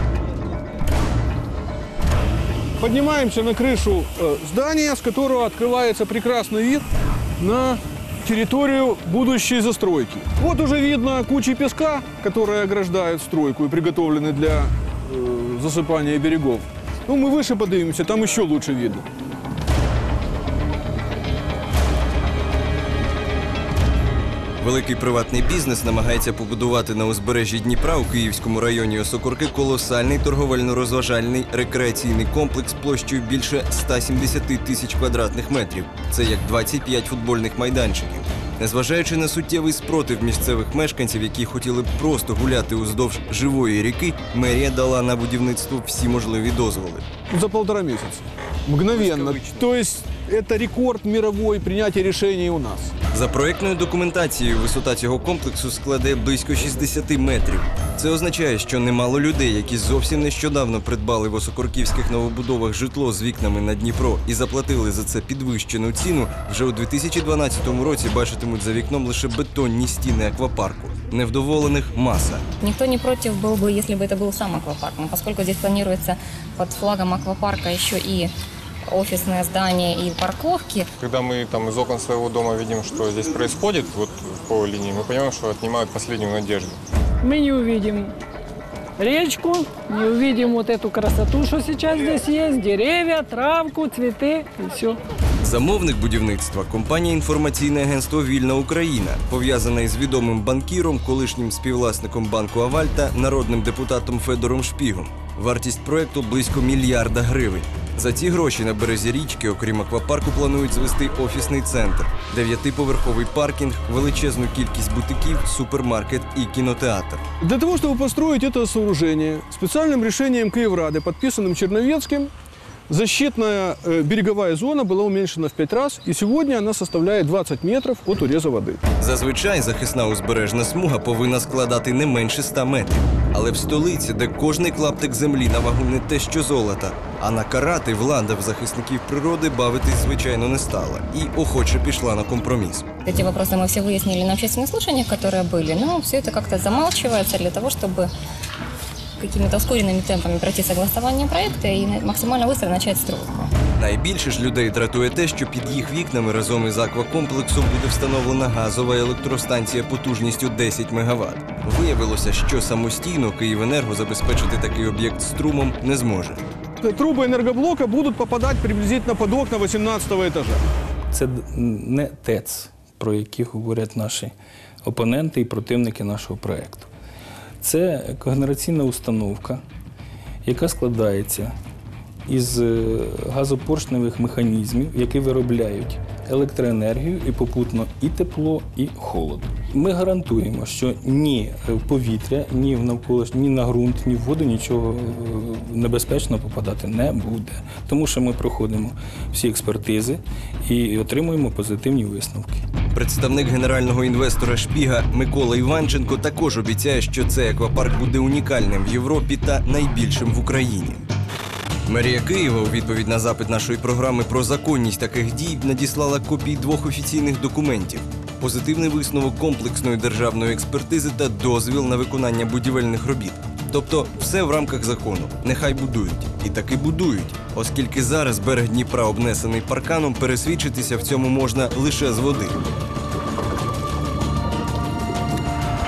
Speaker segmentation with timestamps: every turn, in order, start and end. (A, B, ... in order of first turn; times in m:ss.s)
0:02.8-0:06.8 A
0:07.4-0:19.0 A
0:24.6-0:47.1 B
0:47.3-0:52.9 A
0:48.9-0:49.6 B
0:53.1-1:12.4 B
1:12.6-1:18.3 C
1:18.9-1:20.9 C
1:21.0-1:26.8 D
1:27.2-1:28.1 E
1:29.0-1:35.0 E
1:35.4-1:57.2 B
1:57.4-2:02.3 A
2:02.9-2:08.8 A
2:09.0-2:22.9 B
2:23.0-2:28.1 C
2:29.2-2:33.5 C
2:33.8-2:46.4 B
2:46.8-2:50.6 A
2:51.1-2:54.3 F
2:54.8-2:56.9 F
2:57.6-2:59.6 F
3:00.4-3:01.5 F
3:02.3-3:22.6 F
3:22.9-3:31.0 B
3:31.9-3:52.6 B